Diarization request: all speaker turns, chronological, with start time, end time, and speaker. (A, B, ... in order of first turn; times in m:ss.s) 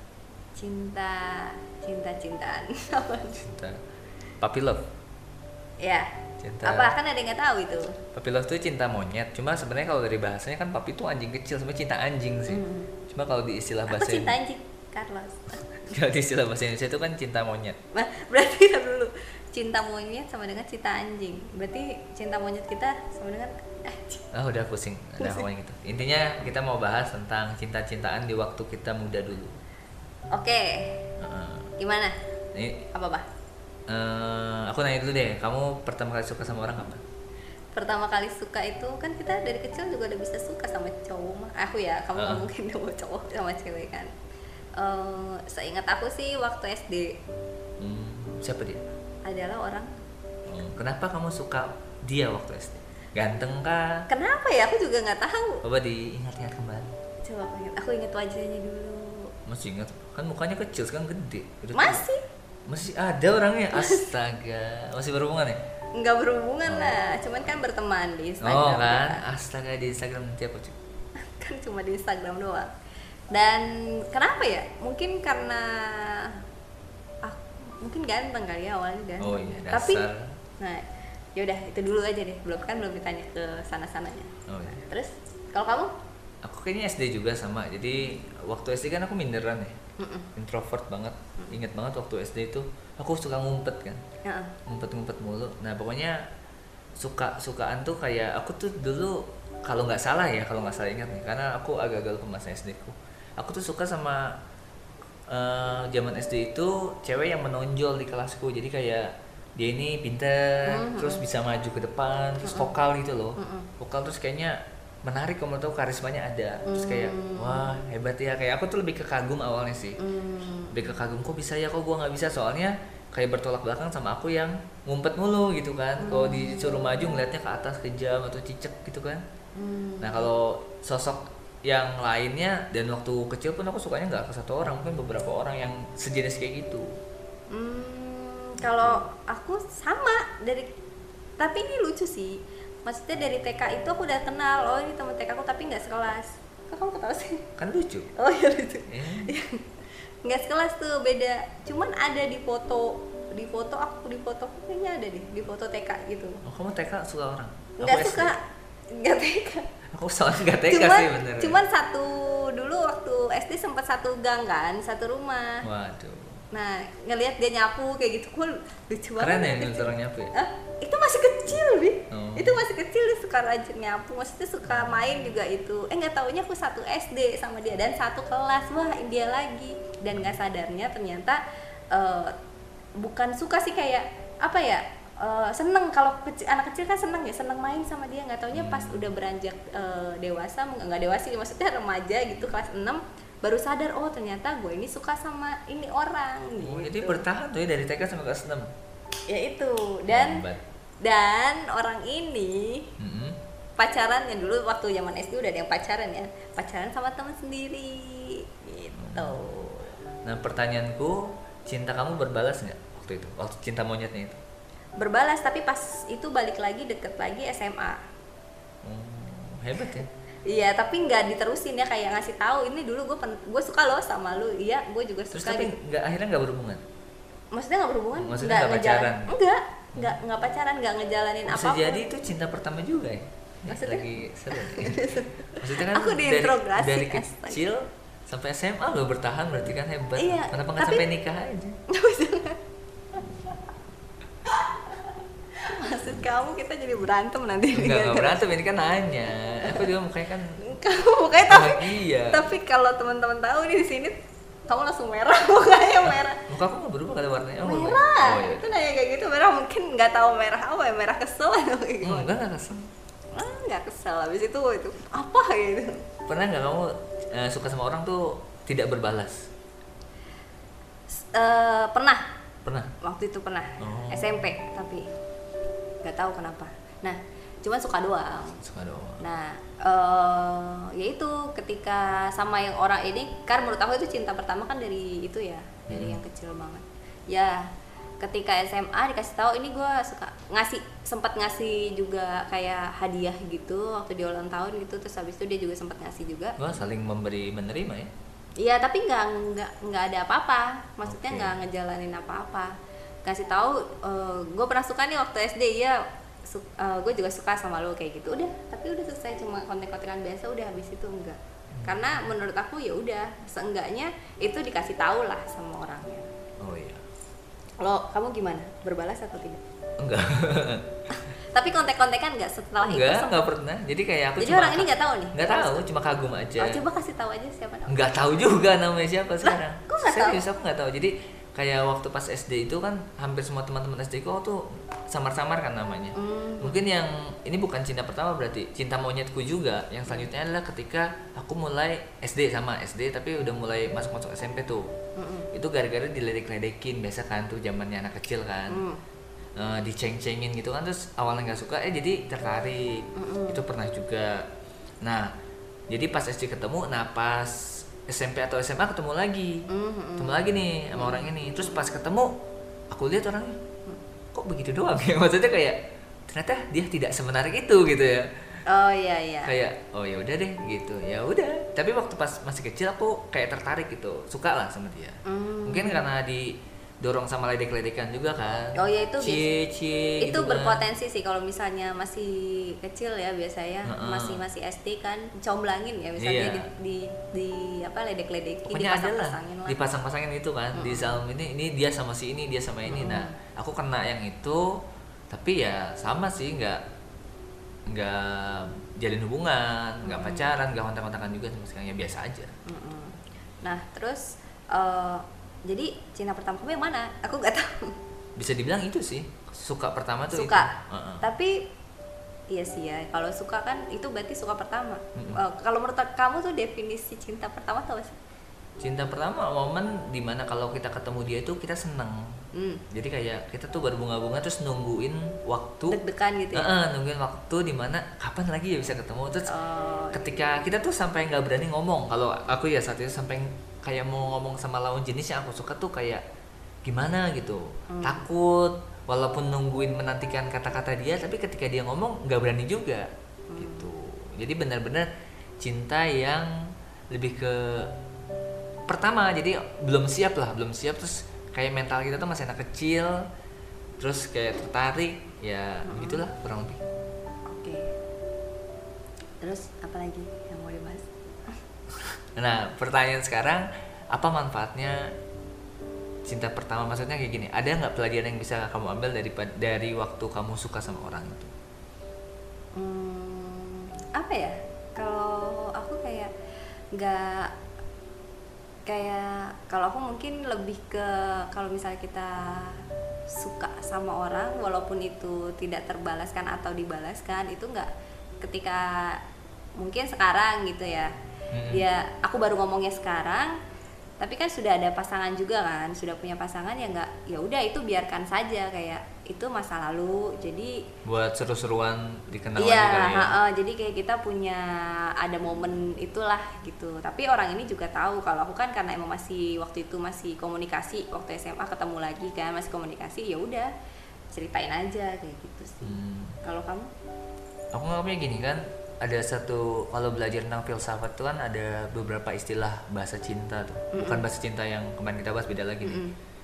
0:00.6-0:03.4 A
0:03.3-0:03.8 B
0:04.4-0:04.8 B
0:05.8-0:06.1 A
0:06.4-0:06.9 B
0:06.6-0:08.0 A
0:08.1-0:14.4 B
0:12.5-0:12.9 A
0:13.9-0:15.8 A
0:15.8-0:17.8 B
0:17.9-0:24.3 A
0:24.3-0:29.6 B
0:25.2-0:25.4 A
0:30.3-0:31.0 A
0:31.2-0:31.7 B
0:31.8-0:32.1 A
0:32.5-0:32.8 B
0:32.9-0:33.2 A
0:33.9-0:37.0 B
0:37.7-0:44.1 A
0:42.2-0:42.5 B
0:44.8-0:47.2 A
0:47.8-0:48.9 B
0:49.2-0:49.9 A
0:50.4-0:54.0 B
0:54.1-0:55.6 A
0:55.6-0:56.9 B
0:57.2-0:59.3 A
0:59.4-1:02.0 B
1:01.7-1:02.2 A
1:02.7-1:05.6 B
1:03.7-1:04.1 A
1:06.0-1:09.2 A
1:06.6-1:07.1 B
1:08.4-1:10.8 B
1:11.2-1:12.7 A
1:13.3-1:16.4 A
1:17.2-1:20.1 A
1:19.2-1:20.3 B
1:20.6-1:20.8 A
1:21.4-1:25.9 A
1:24.5-1:24.8 B
1:26.4-1:29.8 B
1:30.0-1:30.3 A
1:30.4-1:34.0 B
1:34.2-1:34.6 A
1:34.6-1:36.2 B
1:37.0-1:44.4 B
1:45.3-2:00.0 B
1:50.7-1:51.2 A
1:52.4-1:52.7 A
1:53.4-1:53.7 A
1:56.6-1:57.7 A
2:00.0-2:00.8 A
2:00.7-2:09.2 B
2:06.0-2:06.8 A
2:09.6-2:10.3 A
2:10.0-2:17.0 B
2:17.5-2:20.7 A
2:18.6-2:19.0 B
2:21.4-2:27.5 A
2:27.6-2:28.1 B
2:28.1-2:29.7 A
2:28.9-2:29.3 B
2:30.2-2:36.4 A
2:36.4-2:38.3 B
2:37.8-2:38.4 A
2:38.9-2:39.7 A
2:39.9-2:41.6 B
2:40.5-2:45.6 A
2:45.6-2:46.4 B
2:46.5-3:01.4 A
2:49.2-2:50.3 B
2:52.1-2:52.6 B
2:54.7-2:55.2 B
3:01.9-3:02.3 A
3:03.0-3:17.2 A
3:08.5-3:09.1 B
3:16.6-3:18.7 B
3:19.3-3:20.4 A
3:20.1-3:20.6 B
3:21.0-3:22.9 A
3:23.0-3:23.4 B
3:23.8-3:29.7 A
3:29.0-3:34.4 B
3:35.0-3:38.0 A
3:38.8-3:40.1 B
3:40.5-3:45.8 A
3:45.3-3:46.8 B
3:47.5-3:52.0 A
3:48.2-3:49.3 B
3:51.5-4:01.8 B
3:53.7-3:57.6 A
4:00.2-4:01.0 A
4:01.9-4:02.6 A
4:03.1-4:03.5 A
4:04.4-4:08.5 A
4:07.7-4:10.6 B
4:10.6-4:14.2 A
4:11.4-4:12.5 B
4:14.7-4:16.4 A
4:16.1-4:18.7 B
4:17.6-4:22.3 A
4:22.0-4:22.9 B
4:23.3-4:26.0 A
4:26.3-4:29.5 B
4:31.1-4:32.2 A
4:33.0-4:35.1 A
4:33.8-4:34.5 B
4:36.0-4:38.6 A
4:38.6-4:39.2 B
4:39.2-4:47.7 A
4:45.9-4:46.2 B
4:48.2-4:56.6 A
4:56.6-4:58.1 B
4:58.6-5:02.7 A
5:01.0-5:01.6 B
5:03.2-5:16.3 A
5:11.7-5:12.0 B
5:16.6-5:17.0 B
5:17.8-5:19.6 A
5:20.0-5:21.0 B
5:21.1-5:23.4 A
5:22.8-5:26.8 B
5:24.4-5:25.8 A
5:26.6-5:28.1 A
5:27.9-5:44.9 B
5:29.4-5:30.4 A
5:36.1-5:36.8 A
5:45.2-5:45.5 A
5:45.5-5:48.8 B
5:48.7-5:49.0 A
5:49.6-5:54.5 B
5:53.2-5:53.6 A
5:55.0-5:55.3 B
5:55.9-5:59.7 B
5:59.7-6:01.3 A
6:00.2-6:02.3 B
6:02.9-6:03.6 B
6:04.3-6:08.3 B
6:08.6-6:09.5 A
6:09.4-6:20.8 B
6:15.2-6:16.1 A
6:18.7-6:19.5 A
6:20.2-6:29.8 A
6:23.8-6:24.4 B
6:26.2-6:26.7 B
6:28.6-6:34.8 B
6:30.7-6:31.2 A
6:32.9-6:33.4 A
6:35.3-6:36.8 B
6:37.9-6:42.5 B
6:40.0-6:40.5 A
6:42.7-6:48.0 A
6:48.4-6:51.3 B
6:50.3-6:51.6 A
6:52.5-6:58.2 A
6:55.2-6:55.4 B
6:58.8-7:02.2 B
7:02.5-7:02.8 A
7:02.9-7:06.0 B
7:05.9-7:06.8 A
7:06.5-7:09.5 B
7:09.5-7:10.3 A
7:10.1-7:16.2 B
7:16.8-7:25.1 B
7:17.9-7:18.3 A
7:23.5-7:23.9 A
7:25.6-7:27.9 B
7:28.9-7:33.2 B
7:34.0-7:36.8 B
7:35.8-7:36.2 A
7:37.5-7:37.9 A
7:39.4-7:41.5 A
7:42.4-7:45.1 B
7:46.2-7:51.5 B
7:52.8-7:56.3 A
7:56.9-7:57.5 A
7:58.9-8:07.9 A
8:08.4-8:09.2 A
8:09.8-8:11.1 A
8:11.5-8:11.8 B
8:11.7-8:13.5 A
8:14.2-8:20.8 A
8:21.0-8:23.4 B
8:22.6-8:33.7 A
8:34.3-8:36.9 A
8:35.8-8:36.4 B
8:37.7-8:46.0 B
8:43.9-8:44.2 A
8:45.8-8:46.2 A